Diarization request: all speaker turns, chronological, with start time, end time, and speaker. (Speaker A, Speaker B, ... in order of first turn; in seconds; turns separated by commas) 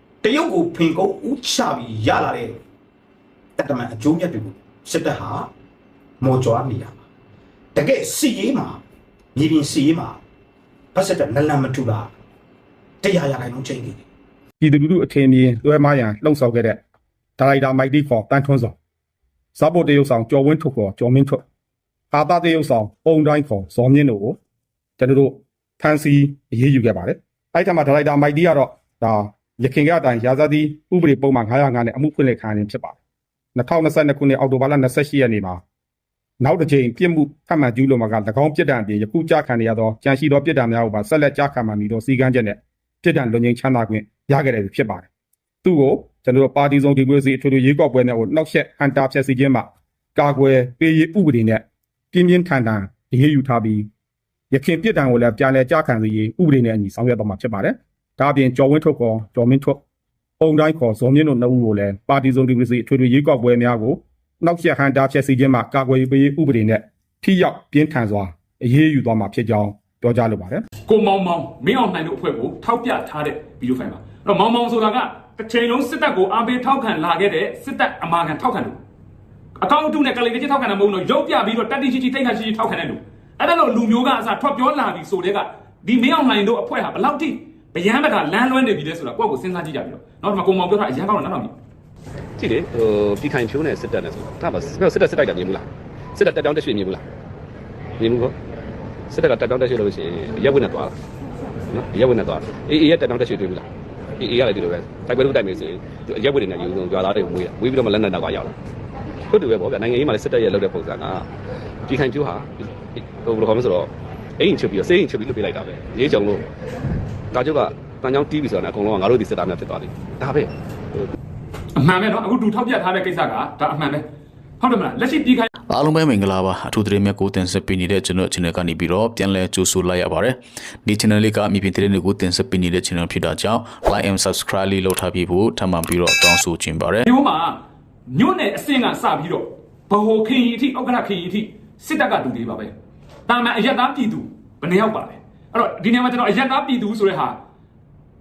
Speaker A: 0.2-2.6, Speaker A: 3.6-5.5, Speaker A: 6.2-7.0, Speaker A: 7.8-8.8, Speaker A: 9.3-10.2, Speaker A: 10.9-12.1, Speaker A: 13.0-14.0, Speaker B: 14.6-16.8, Speaker B: 17.4-18.8, Speaker B: 19.6-21.4, Speaker B: 22.1-24.4, Speaker B: 25.0-33.0, Speaker B: 33.5-35.6, Speaker B: 36.4-45.1, Speaker B: 45.6-53.9, Speaker B: 54.5-59.8, Speaker B: 60.4-70.6, Speaker C: 70.9-78.8, Speaker C: 79.6-91.5, Speaker D: 92.4-97.0, Speaker D: 98.0-98.3, Speaker D: 99.1-100.9, Speaker D: 101.7-103.7, Speaker D: 104.2-108.5, Speaker D: 109.3-111.3, Speaker D: 111.9-116.4, Speaker D: 117.3-121.1, Speaker C: 121.8-124.0, Speaker C: 124.6-125.5, Speaker E: 125.7-137.0, Speaker C: 137.1-137.6, Speaker C: 138.1-142.7, Speaker C: 143.3-147.4